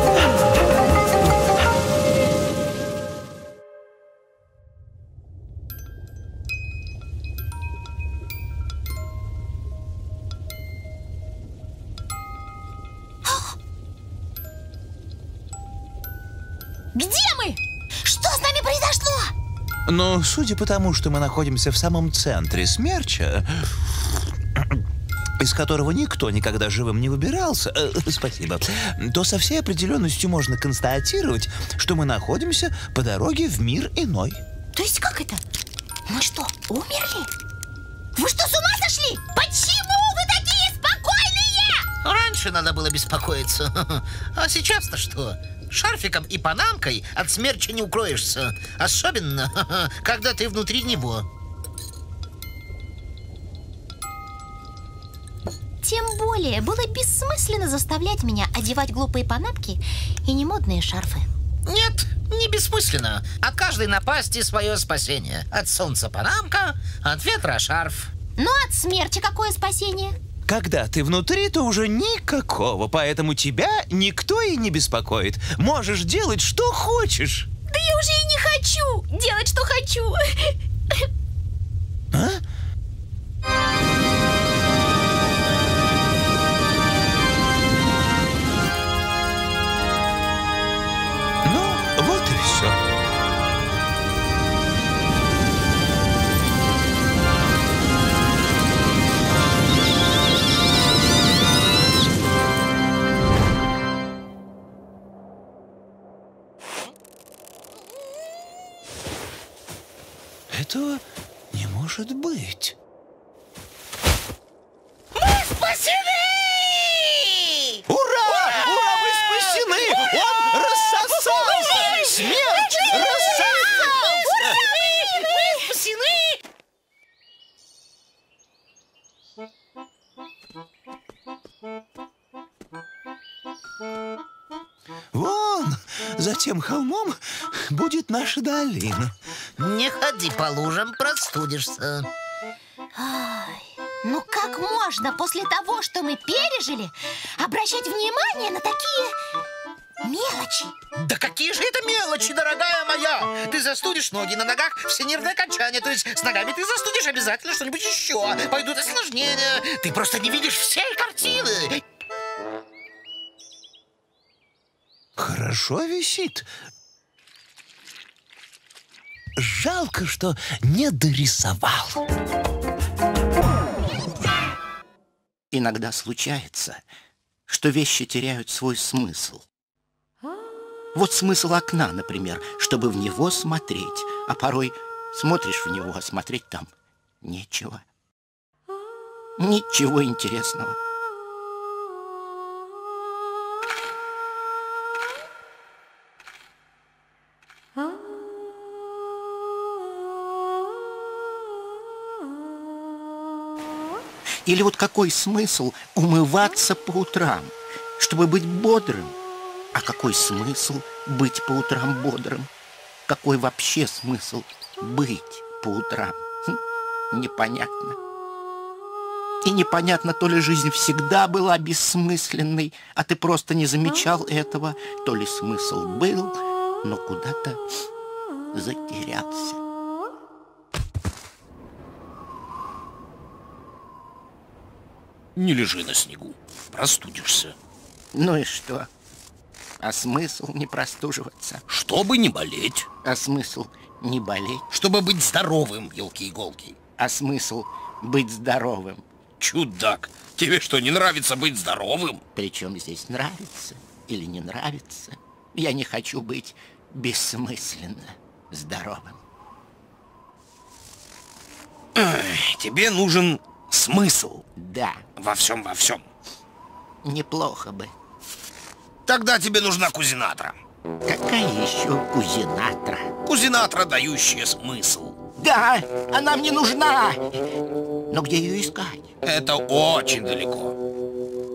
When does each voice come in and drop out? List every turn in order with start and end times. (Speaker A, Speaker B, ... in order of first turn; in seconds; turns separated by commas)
Speaker A: 13.2-13.6, Speaker A: 16.9-19.3, Speaker B: 19.9-24.0, Speaker B: 25.4-34.4, Speaker A: 34.7-35.4, Speaker A: 36.1-37.3, Speaker A: 38.1-41.9, Speaker C: 42.0-51.3, Speaker A: 55.8-61.3, Speaker C: 61.7-68.1, Speaker A: 68.4-70.2, Speaker B: 70.5-77.5, Speaker A: 77.7-81.1, Speaker B: 82.1-82.4, Speaker B: 91.5-92.8, Speaker B: 110.5-112.8, Speaker A: 115.6-116.1, Speaker B: 117.9-124.7, Speaker A: 121.5-126.3, Speaker B: 135.1-139.1, Speaker C: 139.6-142.1, Speaker A: 143.0-149.2, Speaker A: 150.0-150.8, Speaker C: 150.9-161.8, Speaker B: 165.2-166.5, Speaker B: 169.4-172.0, Speaker D: 175.5-176.8, Speaker D: 177.5-179.4, Speaker D: 180.9-186.7, Speaker D: 187.2-187.8, Speaker D: 189.4-190.8, Speaker D: 204.4-209.2, Speaker D: 209.8-212.5, Speaker D: 213.1-216.6, Speaker D: 217.1-218.0, Speaker D: 219.4-227.6, Speaker D: 228.5-229.6, Speaker E: 235.4-237.6, Speaker D: 238.1-238.9, Speaker D: 239.8-241.6, Speaker E: 241.7-242.9, Speaker D: 243.0-244.7, Speaker E: 244.7-246.8, Speaker D: 247.0-249.0, Speaker E: 249.4-252.2, Speaker D: 252.3-259.2, Speaker E: 262.0-264.4, Speaker D: 264.6-265.0, Speaker E: 265.2-266.1, Speaker D: 267.0-267.9, Speaker E: 269.1-270.6, Speaker D: 271.1-273.1, Speaker E: 273.2-275.2, Speaker D: 275.4-277.2, Speaker D: 278.1-279.1, Speaker E: 279.2-280.8